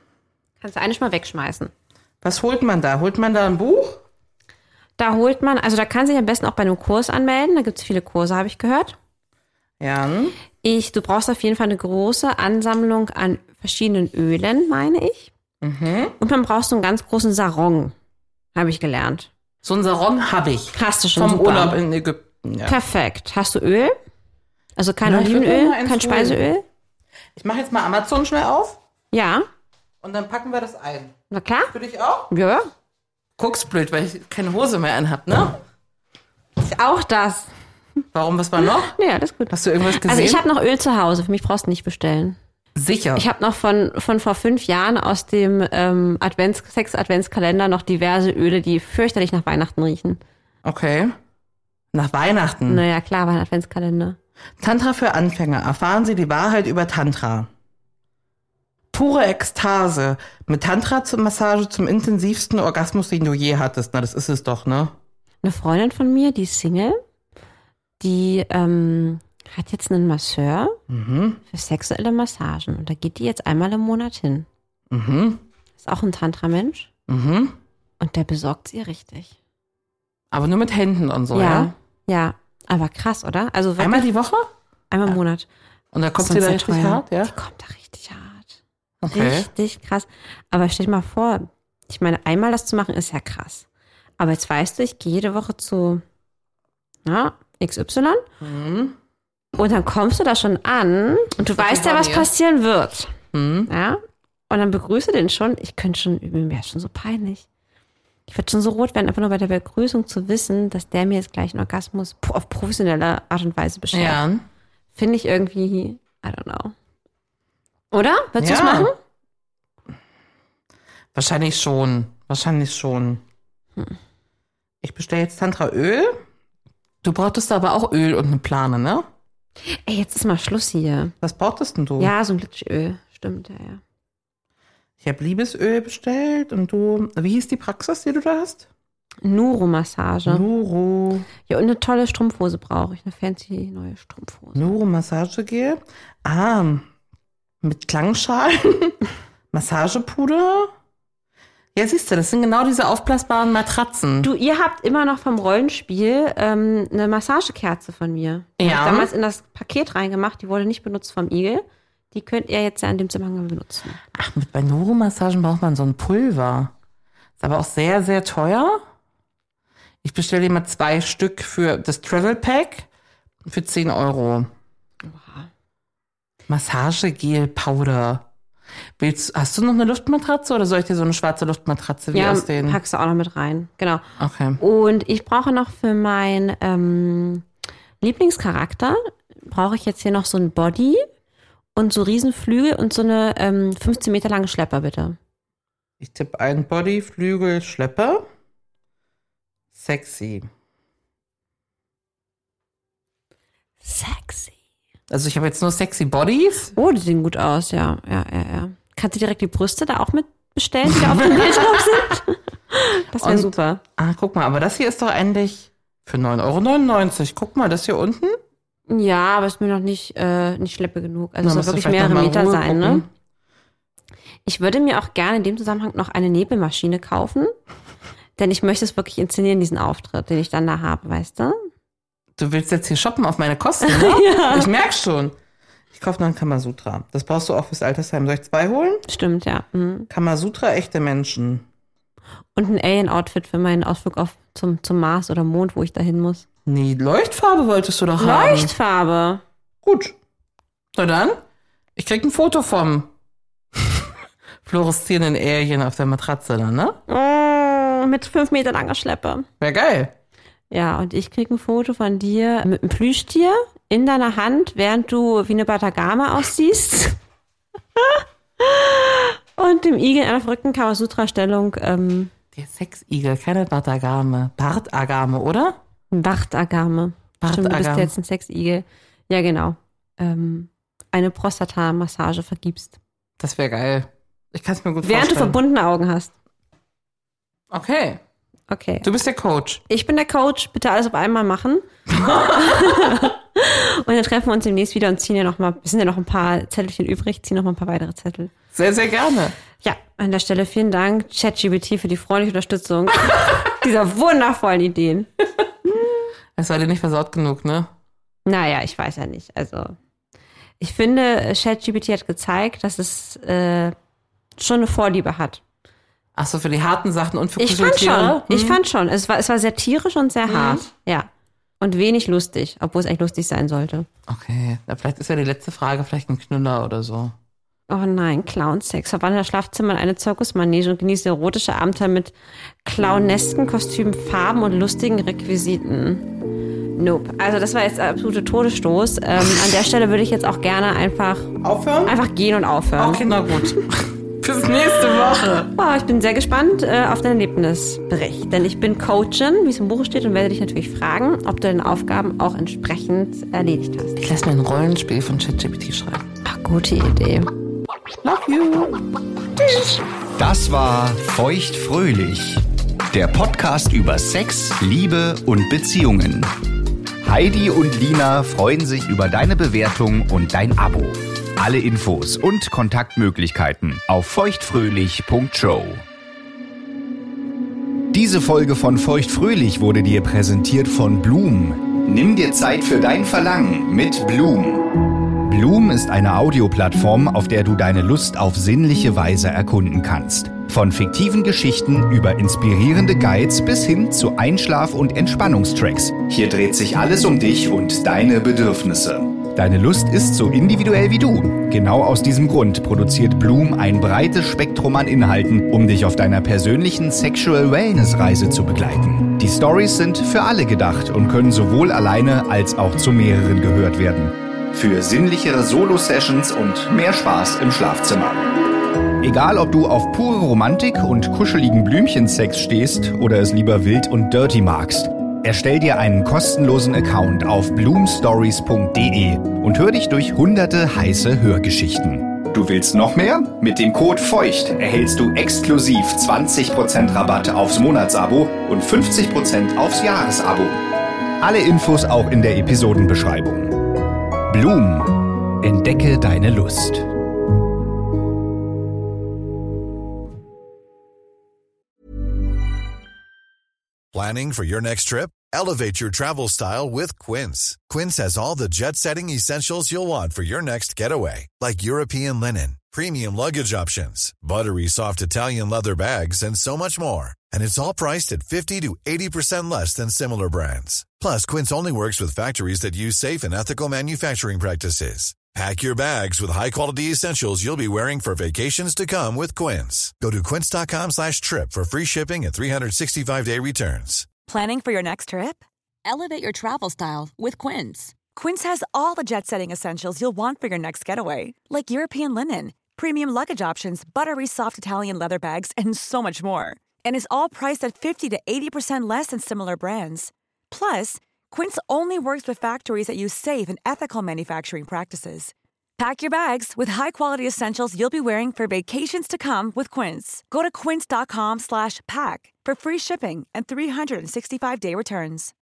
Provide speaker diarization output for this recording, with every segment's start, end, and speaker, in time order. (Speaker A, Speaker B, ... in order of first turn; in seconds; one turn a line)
Speaker A: 0.6-1.7
Speaker B: 2.2-4.0
Speaker A: 5.0-8.9
Speaker B: 9.8-10.4
Speaker A: 10.6-15.3
Speaker B: 15.6-16.1
Speaker A: 16.2-17.9
Speaker A: 18.5-19.3
Speaker B: 19.6-22.7
Speaker A: 20.7-21.8
Speaker A: 22.6-23.9
Speaker A: 24.8-26.6
Speaker B: 25.0-26.4
Speaker B: 27.4-28.8
Speaker A: 29.1-29.4
Speaker B: 30.0-31.1
Speaker A: 31.3-31.7
Speaker B: 31.7-32.3
Speaker A: 32.3-32.7
Speaker B: 33.4-35.6
Speaker A: 36.6-37.5
Speaker B: 38.1-39.0
Speaker A: 38.6-42.4
Speaker B: 39.5-40.4
Speaker B: 42.8-43.2
Speaker A: 43.1-50.2
Speaker B: 50.6-51.1
Speaker B: 51.9-52.8
Speaker A: 52.7-54.2
Speaker B: 54.6-57.5
Speaker B: 58.9-64.9
Speaker A: 65.4-67.0
Speaker A: 68.0-70.8
Speaker B: 70.9-71.4
Speaker A: 71.5-74.5
Speaker B: 74.9-75.4
Speaker A: 75.8-76.9
Speaker B: 77.1-77.5
Speaker A: 78.0-79.3
Speaker B: 80.3-81.7
Speaker A: 81.3-84.1
Speaker B: 83.8-84.5
Speaker A: 84.9-85.5
Speaker B: 85.9-87.3
Speaker A: 86.2-88.6
Speaker B: 89.0-89.5
Speaker A: 89.1-93.6
Speaker A: 94.2-96.0
Speaker A: 97.0-98.2
Speaker B: 98.4-98.9
Speaker A: 99.6-103.1
Speaker B: 101.4-102.3
Speaker B: 103.3-103.7
Speaker A: 103.7-107.4
Speaker A: 108.3-114.2
Speaker B: 113.9-114.4
Speaker A: 114.9-116.7
Speaker A: 117.9-119.0
Speaker B: 118.4-118.9
Speaker B: 121.1-123.2
Speaker B: 124.8-126.2
Speaker B: 127.0-129.1
Speaker A: 129.8-131.1
Speaker B: 131.2-132.1
Speaker A: 132.0-133.8
Speaker B: 135.0-138.7
Speaker A: 139.2-140.4
Speaker B: 140.2-141.3
Speaker A: 141.5-144.6
Speaker B: 144.6-146.8
Speaker B: 147.6-149.0
Speaker B: 149.5-150.7
Speaker B: 151.8-154.3
Speaker A: 154.2-164.0
Speaker B: 158.6-159.1
Speaker B: 164.1-166.7
Speaker B: 167.4-168.8
Speaker B: 170.0-172.9
Speaker B: 173.5-174.5
Speaker A: 175.1-175.4
Speaker B: 176.5-178.2
Speaker B: 179.0-182.8
Speaker A: 182.1-184.0
Speaker B: 184.2-184.6
Speaker A: 184.6-187.4
Speaker A: 188.0-191.0
Speaker A: 191.7-195.2
Speaker B: 196.0-198.3
Speaker B: 199.7-200.5
Speaker A: 203.8-204.5
Speaker B: 205.1-206.7
Speaker A: 206.8-213.8
Speaker B: 210.9-211.8
Speaker B: 213.2-218.4
Speaker A: 218.9-223.0
Speaker B: 221.4-223.1
Speaker A: 224.4-227.5
Speaker A: 228.4-231.6
Speaker B: 232.4-235.3
Speaker A: 233.8-234.7
Speaker B: 235.9-239.0
Speaker A: 239.1-240.1
Speaker B: 240.1-241.6
Speaker A: 242.6-246.4
Speaker B: 246.7-248.7
Speaker A: 248.2-249.4
Speaker B: 249.8-250.1
Speaker B: 250.9-251.4
Speaker B: 252.0-253.1
Speaker B: 254.6-257.0
Speaker A: 257.1-259.5
Speaker B: 259.6-260.1
Speaker A: 260.7-267.2
Speaker A: 268.0-272.3
Speaker B: 272.5-275.8
Speaker A: 276.1-283.0
Speaker B: 277.4-278.1
Speaker B: 283.4-285.6
Speaker A: 285.0-286.3
Speaker B: 287.7-288.2
Speaker A: 288.7-289.1
Speaker B: 289.0-289.8
Speaker A: 289.9-298.5
Speaker B: 292.1-293.2
Speaker B: 298.7-299.6
Speaker A: 299.8-305.3
Speaker B: 306.6-307.9
Speaker A: 308.4-309.9
Speaker A: 310.8-313.9
Speaker A: 314.6-315.6
Speaker B: 316.3-318.8
Speaker A: 317.6-321.3
Speaker B: 320.5-320.8
Speaker A: 321.8-324.1
Speaker B: 324.3-327.3
Speaker A: 327.9-336.3
Speaker A: 337.0-341.5
Speaker B: 341.6-342.1
Speaker A: 342.1-343.8
Speaker B: 343.0-345.7
Speaker A: 345.7-354.2
Speaker B: 354.2-356.2
Speaker A: 356.4-357.5
Speaker B: 358.2-359.0
Speaker C: 360.4-366.5
Speaker C: 367.2-376.0
Speaker C: 378.1-418.5
Speaker C: 419.2-440.8
Speaker C: 441.4-444.0
Speaker C: 444.5-447.1
Speaker D: 454.1-484.3
Speaker E: 484.5-515.5